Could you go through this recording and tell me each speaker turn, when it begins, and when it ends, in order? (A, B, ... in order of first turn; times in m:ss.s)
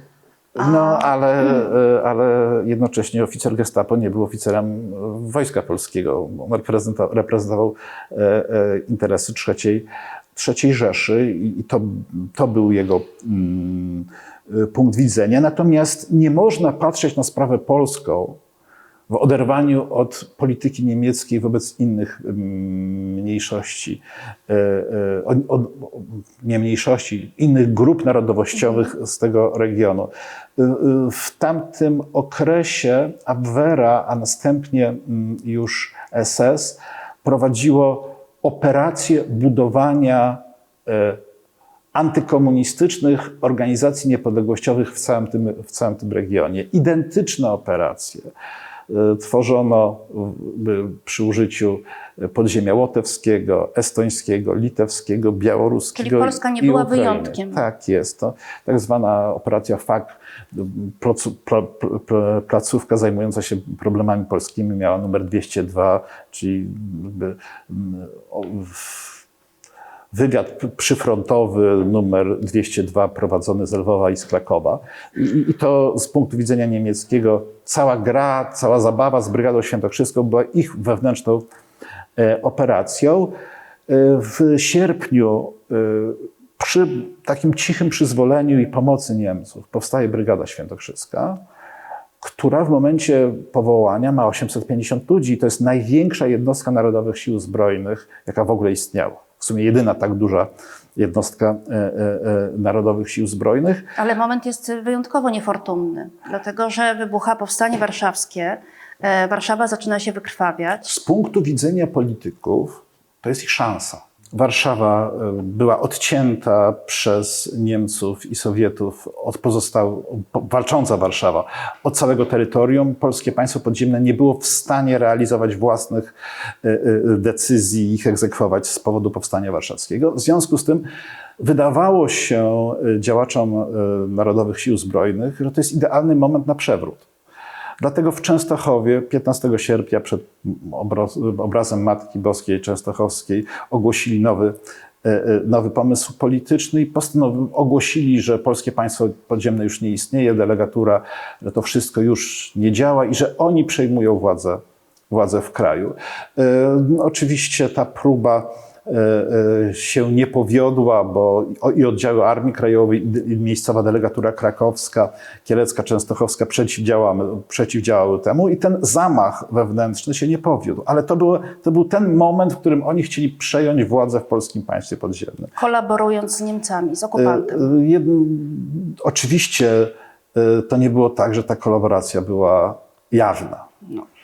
0:00.6-0:18.4 A
0:00.6-0:01.1 B
0:19.1-0:41.2 A
0:41.9-0:48.3 A
0:48.9-1:09.2 A
0:56.0-0:57.6 B
1:10.1-1:21.5 A
1:22.2-1:23.3 A
1:23.9-1:31.4 A
1:32.2-1:43.9 A
1:44.0-1:50.9 B
1:50.8-2:10.9 A
2:11.4-2:17.1 A
2:17.8-2:55.5 A
2:55.6-2:57.6 B
2:57.2-3:03.7 A